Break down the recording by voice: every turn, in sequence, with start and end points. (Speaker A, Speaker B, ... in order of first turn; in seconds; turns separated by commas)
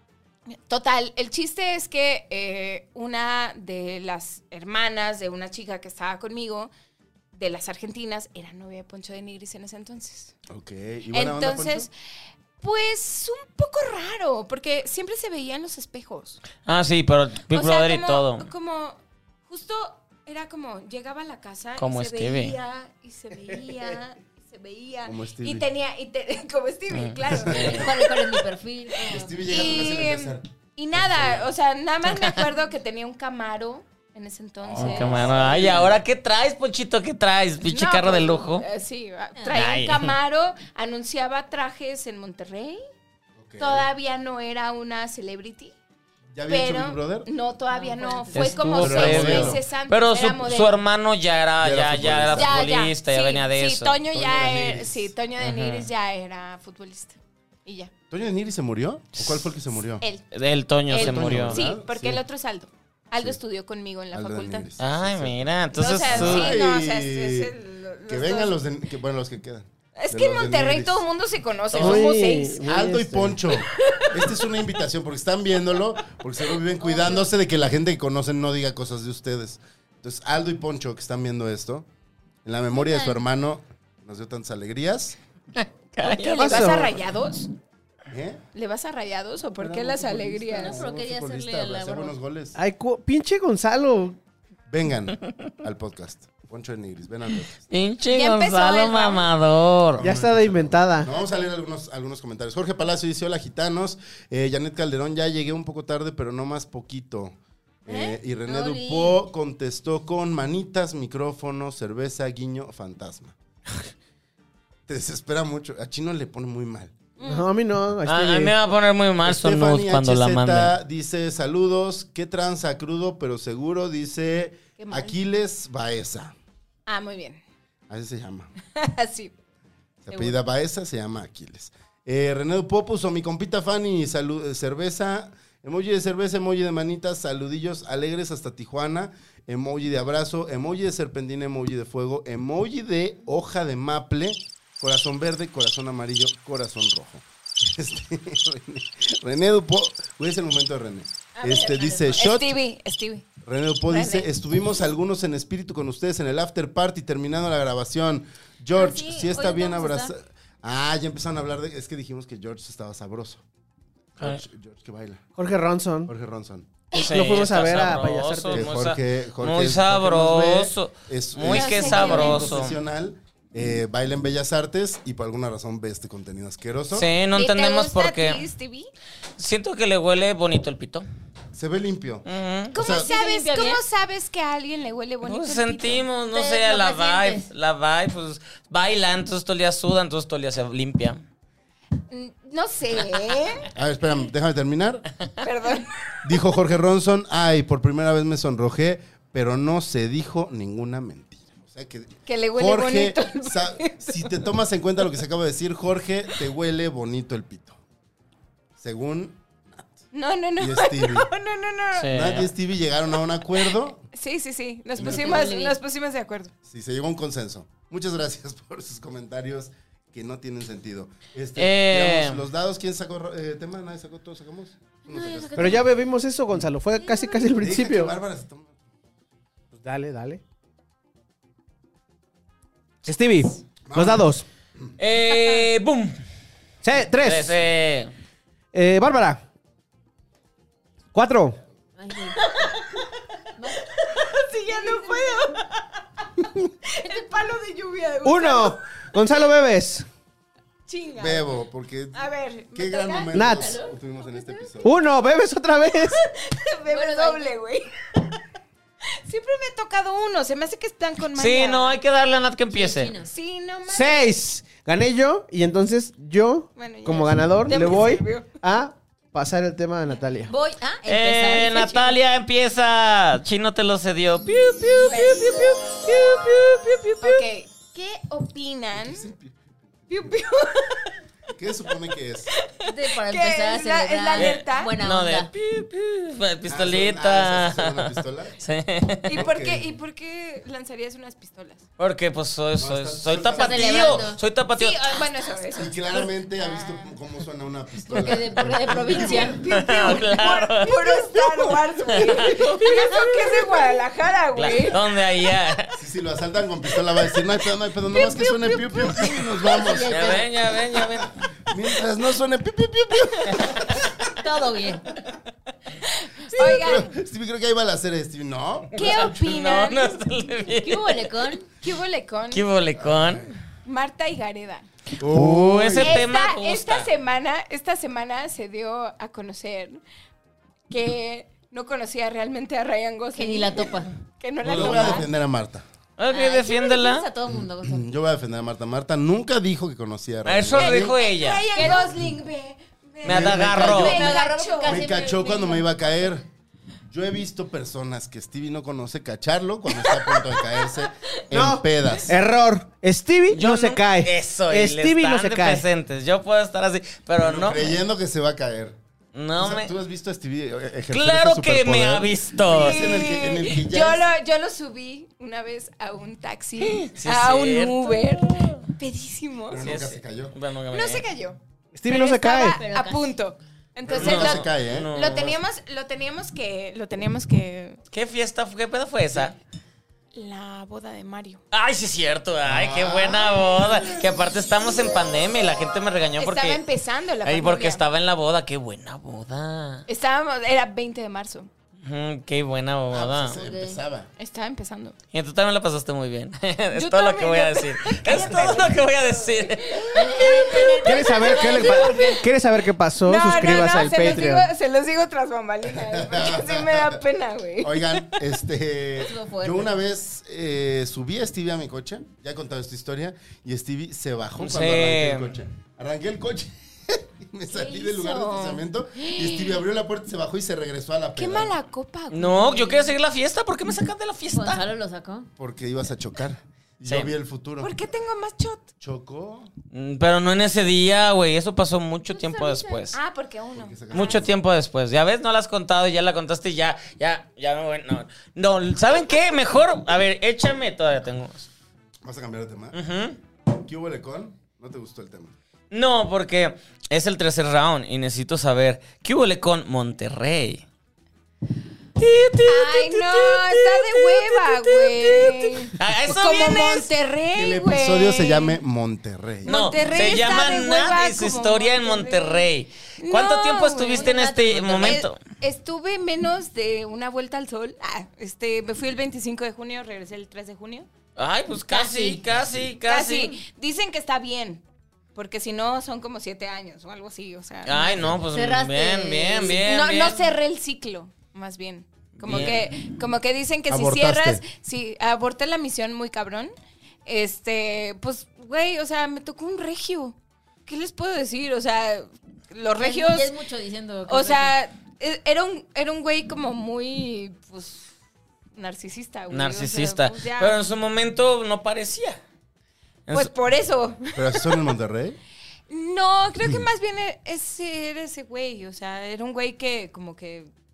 Speaker A: 0.7-6.7, Speaker A: 7.3-10.3, Speaker B: 10.5-11.9, Speaker A: 11.1-11.9, Speaker A: 12.6-16.4, Speaker C: 16.6-18.5, Speaker A: 17.5-27.9, Speaker C: 21.8-22.6, Speaker B: 25.0-25.7, Speaker C: 26.9-27.9, Speaker B: 27.3-28.0, Speaker D: 27.7-29.7, Speaker B: 29.0-31.5, Speaker A: 29.4-35.4, Speaker B: 34.6-36.0, Speaker C: 34.8-38.6, Speaker A: 37.6-42.8, Speaker D: 39.4-39.6, Speaker C: 39.5-40.1, Speaker B: 43.4-43.9, Speaker A: 43.6-45.7, Speaker B: 46.3-47.3, Speaker A: 46.5-50.8, Speaker D: 47.7-48.7, Speaker C: 48.3-54.0, Speaker B: 48.7-49.6, Speaker B: 51.6-52.7, Speaker A: 52.3-57.9, Speaker B: 54.1-55.1, Speaker C: 55.4-55.9, Speaker B: 58.1-60.0, Speaker C: 59.1-59.5, Speaker C: 60.3-61.6, Speaker A: 60.9-64.7, Speaker B: 60.9-62.2, Speaker B: 64.1-65.5, Speaker C: 64.8-66.5, Speaker A: 65.8-68.6, Speaker B: 66.0-67.5, Speaker B: 68.1-71.0, Speaker A: 70.0-72.6, Speaker C: 71.7-72.1, Speaker E: 71.8-73.4, Speaker B: 71.8-72.1, Speaker B: 72.7-81.9, Speaker A: 73.6-74.3, Speaker A: 76.8-77.2, Speaker B: 82.5-85.2, Speaker D: 82.7-83.2, Speaker C: 85.6-86.8, Speaker A: 86.0-87.5, Speaker E: 86.4-87.0, Speaker B: 88.1-88.4, Speaker A: 88.5-90.9, Speaker B: 89.6-92.6, Speaker D: 90.5-92.2, Speaker E: 92.6-94.2, Speaker B: 94.7-97.7, Speaker C: 97.7-100.0, Speaker A: 98.0-99.3, Speaker B: 100.0-113.4, Speaker E: 100.0-101.1, Speaker A: 107.9-108.2, Speaker D: 108.5-109.2, Speaker B: 114.9-117.0, Speaker A: 117.2-117.5, Speaker E: 117.2-118.5, Speaker C: 118.0-120.7, Speaker B: 119.2-126.4, Speaker A: 124.8-125.2, Speaker A: 126.9-127.4, Speaker B: 127.9-128.5, Speaker A: 128.8-129.3, Speaker B: 130.0-152.6, Speaker D: 151.4-152.3, Speaker A: 151.4-153.3, Speaker B: 153.4-163.4, Speaker A: 153.9-154.3, Speaker D: 158.8-160.1, Speaker B: 164.2-165.3, Speaker E: 165.4-166.1, Speaker B: 166.1-166.7, Speaker E: 166.9-168.7, Speaker C: 166.9-172.8, Speaker B: 168.5-177.1, Speaker A: 171.5-172.6, Speaker C: 176.9-178.4, Speaker A: 177.3-178.9, Speaker C: 179.4-181.1, Speaker B: 181.5-183.1, Speaker C: 182.3-182.8, Speaker A: 182.7-186.1, Speaker D: 182.8-183.8, Speaker C: 185.2-191.2, Speaker D: 186.3-187.5, Speaker A: 192.1-193.7, Speaker B: 193.8-195.1, Speaker A: 195.4-195.9, Speaker B: 196.2-207.8, Speaker A: 202.3-204.2, Speaker B: 208.8-210.0, Speaker A: 210.1-212.1, Speaker B: 210.6-211.3, Speaker C: 211.9-212.5, Speaker B: 212.1-214.0, Speaker A: 214.1-216.5, Speaker D: 215.0-215.8, Speaker B: 215.0-215.3, Speaker B: 216.7-225.8, Speaker C: 221.6-222.4, Speaker D: 225.1-225.9, Speaker E: 225.6-228.1, Speaker D: 227.0-227.5, Speaker B: 227.6-228.7, Speaker E: 229.7-230.4, Speaker E: 233.1-234.4, Speaker B: 233.9-234.3, Speaker C: 235.0-236.2, Speaker E: 236.8-237.6, Speaker C: 237.1-238.1, Speaker E: 238.7-239.4, Speaker E: 241.1-241.6, Speaker D: 242.0-242.5, Speaker A: 242.4-243.1, Speaker D: 243.6-243.9, Speaker A: 243.8-245.8, Speaker D: 244.8-245.1, Speaker A: 246.9-248.8, Speaker E: 248.2-250.1, Speaker A: 250.9-251.5, Speaker B: 251.2-252.2, Speaker A: 252.1-253.4, Speaker B: 252.7-255.0, Speaker E: 253.3-253.7, Speaker D: 253.4-254.6, Speaker E: 254.8-256.2, Speaker A: 256.2-258.3, Speaker D: 256.9-257.5, Speaker A: 259.3-262.0, Speaker C: 261.3-263.1, Speaker D: 262.7-263.3, Speaker A: 263.2-264.3, Speaker E: 263.9-270.5, Speaker A: 266.8-268.5, Speaker D: 270.5-272.1, Speaker C: 271.1-277.4, Speaker A: 275.0-275.7, Speaker A: 277.2-279.3, Speaker B: 278.9-280.2, Speaker A: 280.1-281.1, Speaker B: 281.6-282.5, Speaker A: 282.5-285.0, Speaker D: 282.8-285.5, Speaker C: 284.4-289.4, Speaker B: 286.7-288.6, Speaker A: 289.3-291.8, Speaker B: 289.4-289.9, Speaker C: 292.0-295.2, Speaker B: 292.8-294.3, Speaker D: 293.5-294.4, Speaker A: 294.7-297.1, Speaker B: 295.7-299.6, Speaker D: 298.1-299.6, Speaker A: 298.9-305.0, Speaker C: 299.7-303.8, Speaker C: 304.6-306.0, Speaker B: 306.0-314.3, Speaker A: 308.2-309.2, Speaker D: 309.7-310.4, Speaker C: 310.1-311.3, Speaker D: 314.4-315.1, Speaker A: 316.5-317.1, Speaker B: 316.6-319.3, Speaker A: 319.0-320.2, Speaker C: 319.0-321.2, Speaker D: 320.8-321.7, Speaker A: 321.8-322.6, Speaker C: 322.5-323.6, Speaker B: 323.0-323.6, Speaker A: 323.9-324.9, Speaker B: 325.2-326.3, Speaker C: 325.2-327.1, Speaker A: 326.0-330.0, Speaker A: 330.9-335.3, Speaker D: 333.4-334.1, Speaker C: 334.6-335.0, Speaker B: 334.7-335.9, Speaker D: 334.7-335.2, Speaker C: 336.2-337.3, Speaker D: 336.3-338.0, Speaker B: 337.5-341.1, Speaker C: 340.4-341.7, Speaker A: 340.8-345.2, Speaker D: 341.8-342.1, Speaker B: 343.2-344.2, Speaker C: 343.2-344.3, Speaker D: 343.9-345.9, Speaker B: 344.8-346.5, Speaker B: 347.1-352.4, Speaker A: 350.0-351.4, Speaker E: 351.5-355.9, Speaker C: 353.5-358.0, Speaker B: 357.4-359.0, Speaker C: 359.4-359.9, Speaker B: 359.6-364.2, Speaker C: 361.1-363.2, Speaker A: 362.7-369.8, Speaker C: 366.9-368.9, Speaker B: 369.7-370.6, Speaker C: 369.8-371.3, Speaker A: 370.9-378.0, Speaker E: 371.9-372.8, Speaker D: 372.8-373.3, Speaker B: 374.1-375.1, Speaker C: 374.1-375.6, Speaker C: 378.1-379.6, Speaker A: 380.3-381.6, Speaker C: 381.7-386.8, Speaker B: 382.6-384.3, Speaker A: 386.4-388.0, Speaker C: 387.4-390.1, Speaker A: 390.1-391.7, Speaker C: 392.0-393.6, Speaker B: 393.1-394.3, Speaker D: 393.6-394.0, Speaker A: 394.4-395.2, Speaker C: 395.3-400.2, Speaker A: 396.9-402.4, Speaker D: 400.1-402.4, Speaker E: 401.1-404.7, Speaker A: 403.2-408.1, Speaker B: 405.9-407.2, Speaker B: 407.8-421.7, Speaker D: 409.2-409.9, Speaker C: 414.6-415.6, Speaker A: 417.7-419.8, Speaker A: 421.4-423.1, Speaker C: 422.3-424.9, Speaker D: 424.5-425.5, Speaker B: 425.6-427.9, Speaker C: 427.1-427.3, Speaker A: 427.8-428.9, Speaker B: 429.0-429.7, Speaker C: 429.9-433.2, Speaker A: 432.3-434.5, Speaker B: 433.7-434.5, Speaker C: 434.1-441.7, Speaker B: 442.2-443.0, Speaker C: 442.9-443.4, Speaker B: 443.7-445.6, Speaker C: 445.9-450.9, Speaker C: 452.2-457.1, Speaker A: 452.7-458.8, Speaker B: 457.5-459.8, Speaker A: 459.6-462.7, Speaker C: 459.6-465.4, Speaker A: 463.2-471.1, Speaker D: 464.1-465.2, Speaker C: 471.4-473.6, Speaker A: 471.9-472.4, Speaker A: 473.1-474.8, Speaker A: 475.4-478.3, Speaker C: 477.9-480.5, Speaker D: 478.5-479.8, Speaker A: 479.6-486.7, Speaker C: 482.4-482.8, Speaker B: 482.5-482.8, Speaker B: 483.9-484.6, Speaker A: 487.3-493.5, Speaker D: 493.0-494.8, Speaker A: 494.3-498.1, Speaker A: 498.7-500.8, Speaker C: 499.5-502.4, Speaker C: 503.3-503.5, Speaker A: 503.3-504.7, Speaker B: 504.4-505.4, Speaker A: 505.9-510.7